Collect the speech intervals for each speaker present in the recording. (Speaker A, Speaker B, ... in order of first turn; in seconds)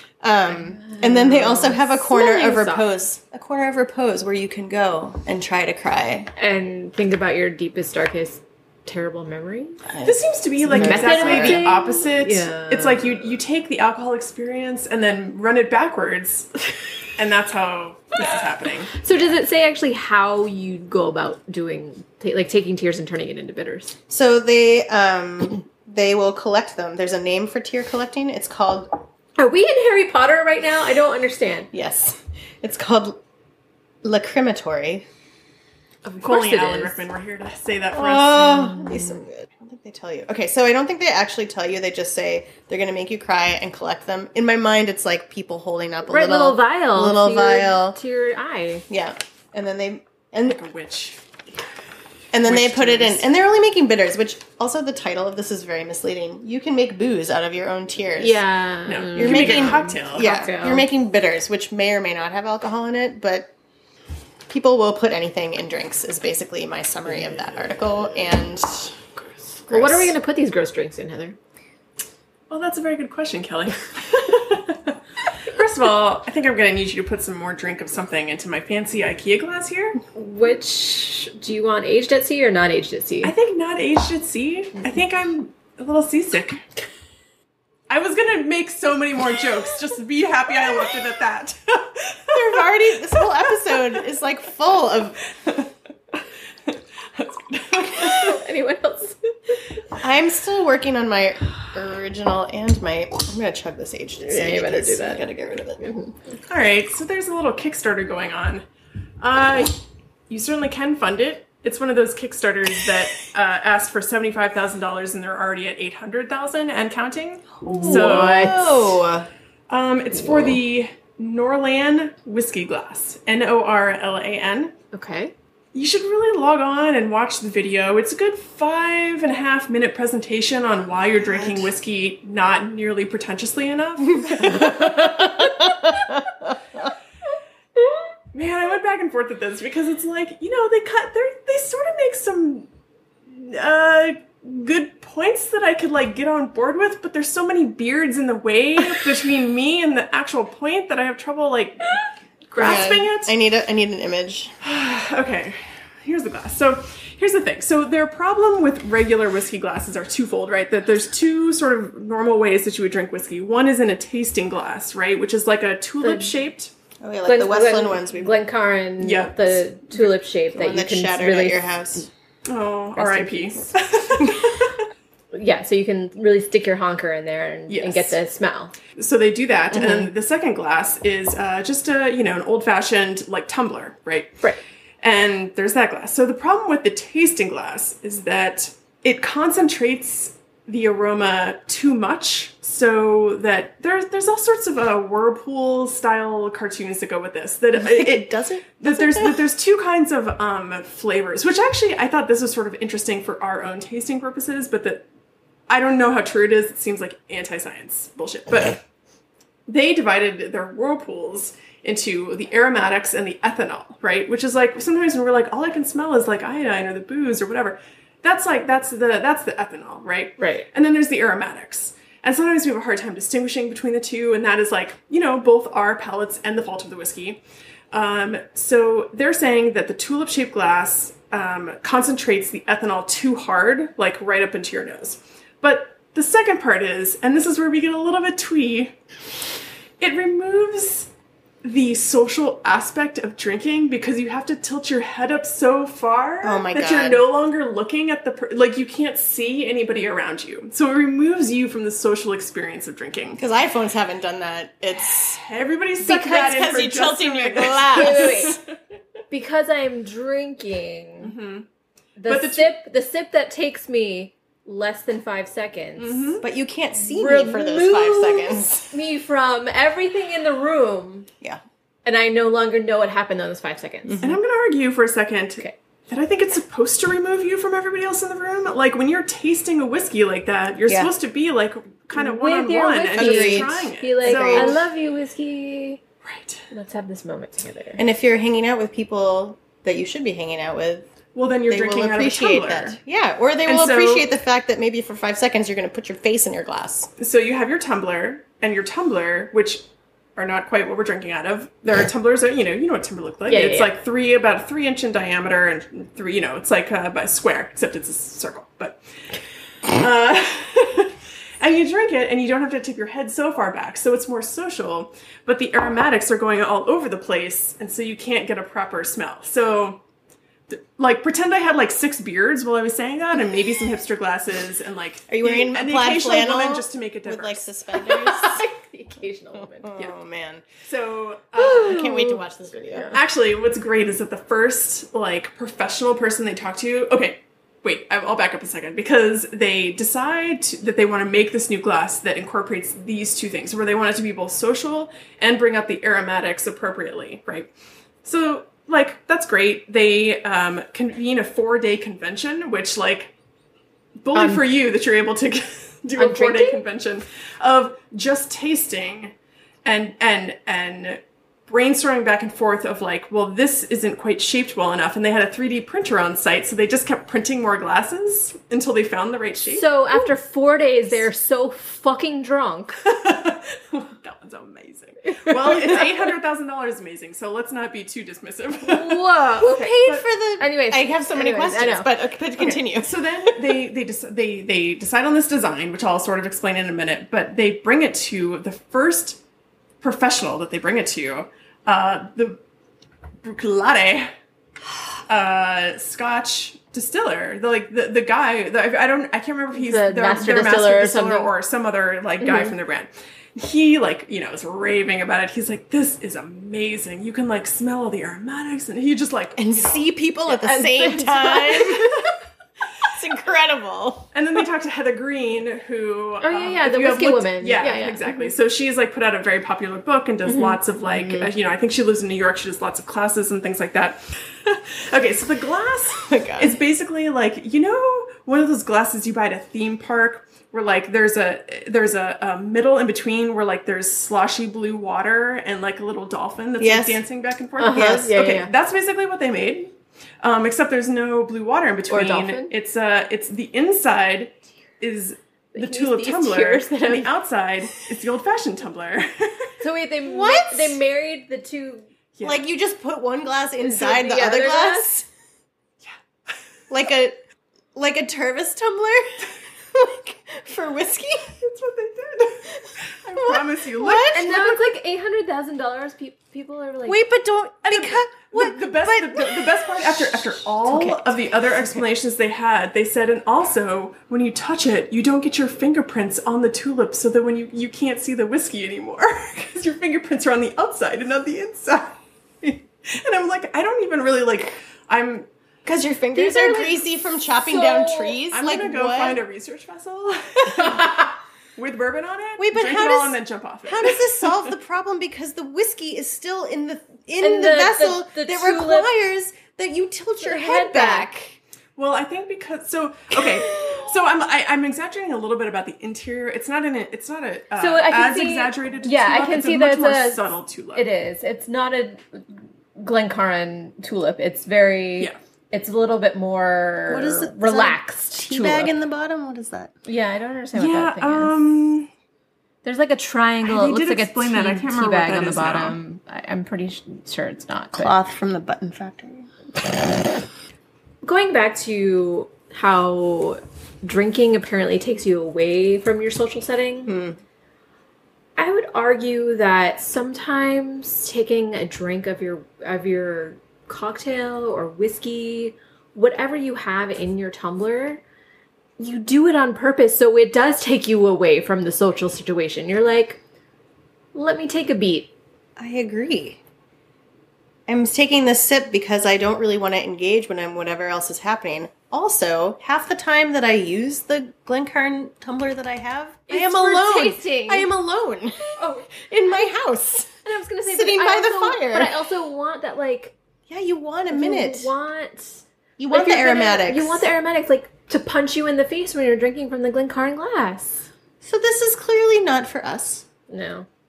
Speaker A: 0.2-6.3, 9.8-11.7, 24.1-29.0, 31.7-33.2, 34.0-35.0, 37.9-48.0, 48.9-50.6, 52.3-58.4, 59.1-63.5, 64.5-69.0, 69.7-70.1, 92.3-95.2, 100.0-105.9, 117.6-119.3, 134.3-136.5, 152.6-154.5, 167.0-168.3, 170.5-172.1, 197.8-199.4, 246.4-247.2, 253.4-255.4, 256.0-258.6, 266.4-268.9, 274.1-274.4, 283.1-284.8, 288.0-291.1, 291.7-297.1, 325.3-328.6, 329.6-330.6, 331.7-333.1, 379.6-383.8, 409.6-412.1, 413.0-414.3, 426.2-426.8, 436.8-437.2, 437.9-438.3, 450.2-451.0, 452.4-455.3, 456.9-457.4, 457.9-461.5, 463.3-464.9, 467.0-470.4, 485.8-489.4, 492.6-501.6, 503.4-504.0, 517.1-519.9, 527.9-529.5, 537.0-537.4, 555.8-556.6, 557.9-570.3, 570.8-572.1, 573.7-574.9, 576.0-577.3, 581.4-583.2
Speaker B: 0.8-2.9, 6.4-9.8, 10.7-13.1, 18.9-23.9, 29.4-31.7, 36.0-37.0, 38.8-39.1, 46.1-48.9, 58.2-60.9, 69.7-71.4, 80.1-83.3, 98.0-99.5, 104.2-105.2, 105.8-106.1, 117.7-119.0, 124.9-125.3, 166.0-166.3, 167.2-171.7, 172.9-173.7, 175.3-178.7, 220.4-220.7, 257.9-258.6, 259.3-261.3, 262.2-266.4, 267.0-271.3, 272.0-274.2, 282.1-286.0, 286.7-288.0, 303.5-303.9, 327.9-329.9, 331.6-333.2, 354.3-354.6, 356.2-356.8, 369.7-373.0, 375.3-375.9, 378.9-380.1, 380.6-382.1, 399.7-401.5, 402.4-402.7, 410.4-412.3, 416.4-418.5, 420.5-420.8, 437.8-438.7, 442.1-442.7, 445.7-447.3, 449.8-452.0, 453.8-455.1, 464.3-467.2, 470.9-471.2, 486.3-488.4, 497.4-499.1, 500.4-501.3, 507.7-510.4, 510.9-512.4, 513.0-518.9, 520.0-521.5, 522.8-528.1, 531.2-537.1, 538.6-548.2, 549.0-553.4, 554.3-555.3, 566.5-567.9, 568.8-569.6, 570.4-573.3, 574.3-581.1, 583.5-583.9
Speaker C: 10.0-16.5, 17.1-18.9, 36.2-38.9, 50.5-51.2, 52.4-53.2, 58.9-60.4, 72.5-80.0, 83.2-86.6, 87.9-92.6, 95.4-98.4, 106.5-108.6, 109.2-118.6, 119.7-124.7, 125.7-135.0, 138.3-142.7, 143.3-153.3, 154.6-166.7, 169.0-169.6, 172.4-174.8, 177.7-178.1, 178.9-184.4, 185.0-205.0, 205.7-208.8, 209.7-227.4, 227.9-238.9, 240.0-241.1, 241.6-253.4, 255.1-258.6, 261.2-261.6, 262.3-262.7, 266.0-266.4, 274.2-284.8, 286.2-286.6, 291.3-293.0, 293.6-294.3, 297.2-299.8, 300.4-309.0, 309.9-320.0, 320.7-327.6, 330.8-332.1, 333.1-347.7, 348.2-353.3, 354.2-359.3, 359.8-370.3, 373.0-379.3, 382.6-389.4, 390.0-392.6, 393.4-394.3, 395.3-410.1, 414.3-439.9, 440.4-449.7, 452.3-452.6, 461.6-464.6, 467.9-485.5, 488.5-494.7, 502.0-511.1, 520.7-522.1, 523.6-526.0